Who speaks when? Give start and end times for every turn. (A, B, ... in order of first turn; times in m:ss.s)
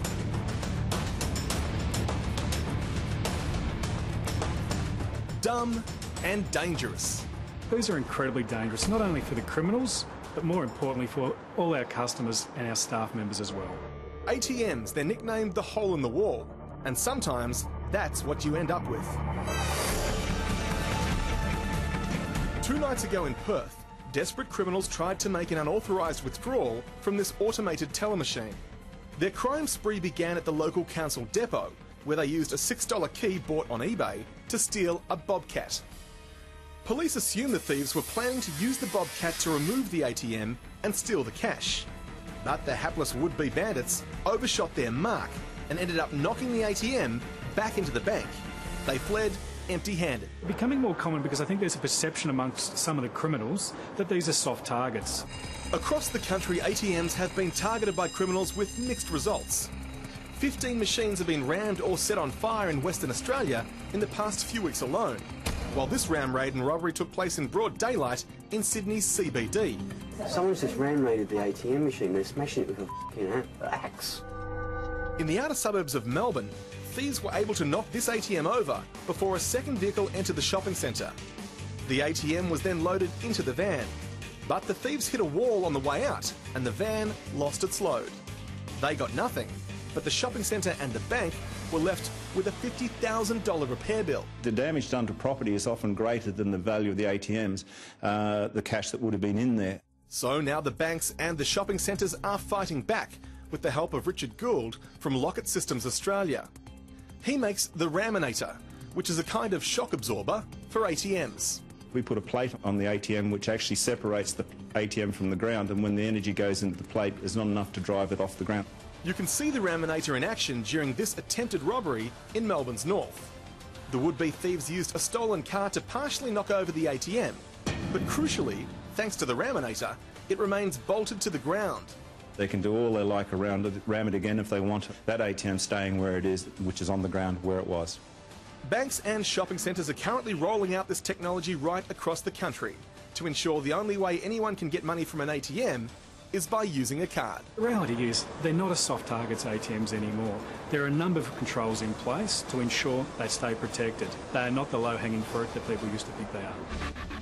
0:05.4-0:07.3 A
0:07.7-0:13.8 B
0:14.3-0:19.2 A
0:22.6-0:28.6 A
0:29.2-0:35.8 A
0:36.8-0:41.9 A
0:42.4-0:50.4 A
0:50.4-0:55.3 B
0:55.7-0:59.7 A
1:00.4-1:09.9 A
1:10.2-1:14.2 C
1:15.2-1:21.2 A
1:21.8-1:28.2 A
1:28.8-1:34.3 A
1:34.4-1:39.8 D
1:40.1-1:46.5 A
1:47.2-1:51.6 A
1:51.9-1:58.6 D
1:59.0-2:03.3 A
2:03.9-2:12.0 A
2:12.4-2:18.0 D
2:18.6-2:27.5 A
2:27.6-2:36.6 B